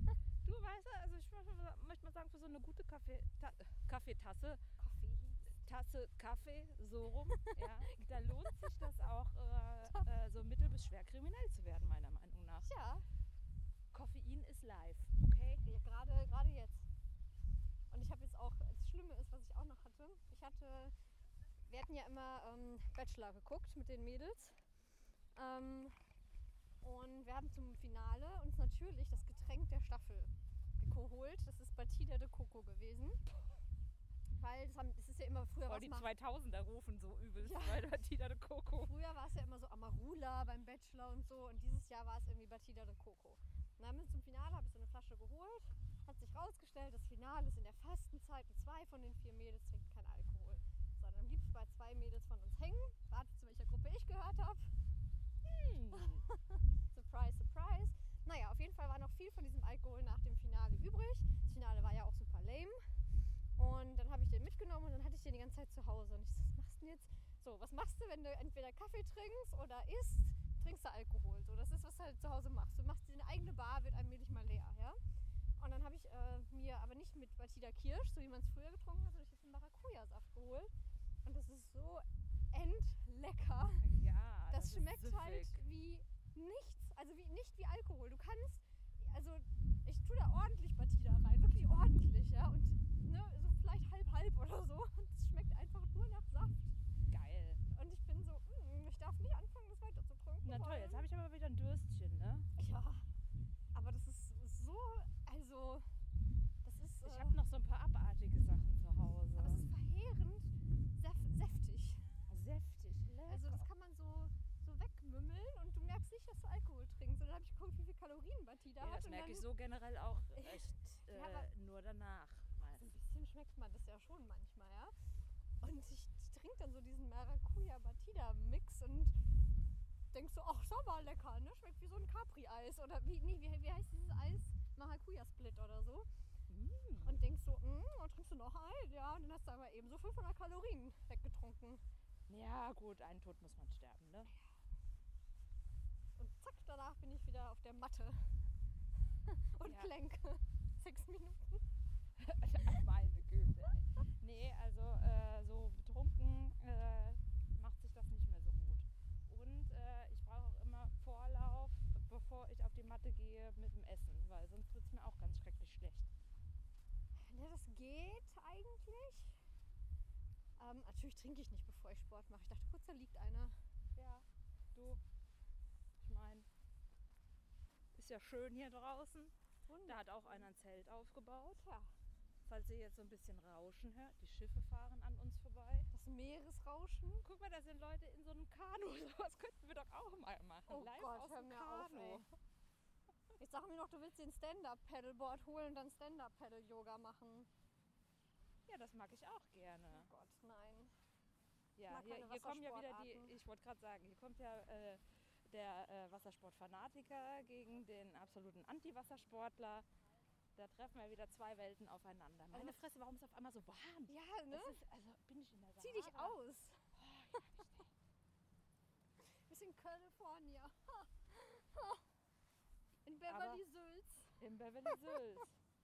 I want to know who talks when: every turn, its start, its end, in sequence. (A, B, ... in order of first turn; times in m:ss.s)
0:00.4-0:04.6 A
0:04.8-0:05.7 B
0:05.6-0:12.7 A
0:07.4-0:08.7 B
0:12.6-0:13.0 B
0:13.9-0:15.6 A
0:15.6-0:16.9 B
0:17.9-0:20.9 B
0:21.7-0:24.6 B
0:25.4-0:26.0 B
0:26.8-0:33.2 B
0:34.4-0:36.1 B
0:35.6-0:38.9 A
0:37.4-0:37.9 B
0:38.8-0:54.7 B
0:55.4-0:56.2 A
0:55.9-1:02.8 B
1:03.6-1:15.0 B
1:15.6-1:20.7 B
1:21.2-1:23.9 B
1:23.8-1:25.6 A
1:24.5-1:36.8 B
1:37.1-1:37.6 A
1:37.7-1:41.0 B
1:40.4-1:42.5 A
1:42.6-1:43.0 B
1:43.7-1:45.8 B
1:46.6-1:47.4 B
1:47.0-1:49.7 A
1:49.4-1:52.0 B
1:52.3-1:53.6 A
1:53.3-1:59.5 B
1:58.8-2:02.9 A
2:00.4-2:01.5 B
2:02.7-2:04.9 B
2:05.6-2:09.2 B
2:10.1-2:16.1 B
2:16.5-2:17.2 A
2:17.0-2:21.8 B
2:22.3-2:24.3 A
2:26.2-2:28.2 B
2:29.2-2:31.6 B
2:29.6-2:29.9 A
2:32.2-2:46.1 A
2:47.2-2:49.4 B
2:50.6-2:53.6 B
2:54.0-2:55.0 A
2:56.0-2:56.5 A
2:58.0-2:59.3 A
2:59.7-3:00.4 B
2:59.8-3:01.6 A
3:01.6-3:01.9 B
3:02.5-3:05.9 A
3:05.9-3:07.2 B
3:07.2-3:12.2 A
3:10.7-3:12.3 B
3:13.4-3:17.5 B
3:18.7-3:20.1 A
3:19.9-3:20.9 B
3:21.8-3:29.9 A
3:21.9-3:23.3 B
3:30.6-3:36.4 A
3:32.5-3:32.8 B
3:34.1-3:34.8 B
3:35.8-3:37.5 B
3:36.9-3:37.9 A
3:39.2-3:42.0 B
3:43.1-3:45.2 B
3:43.3-3:43.6 A
3:44.4-3:45.5 A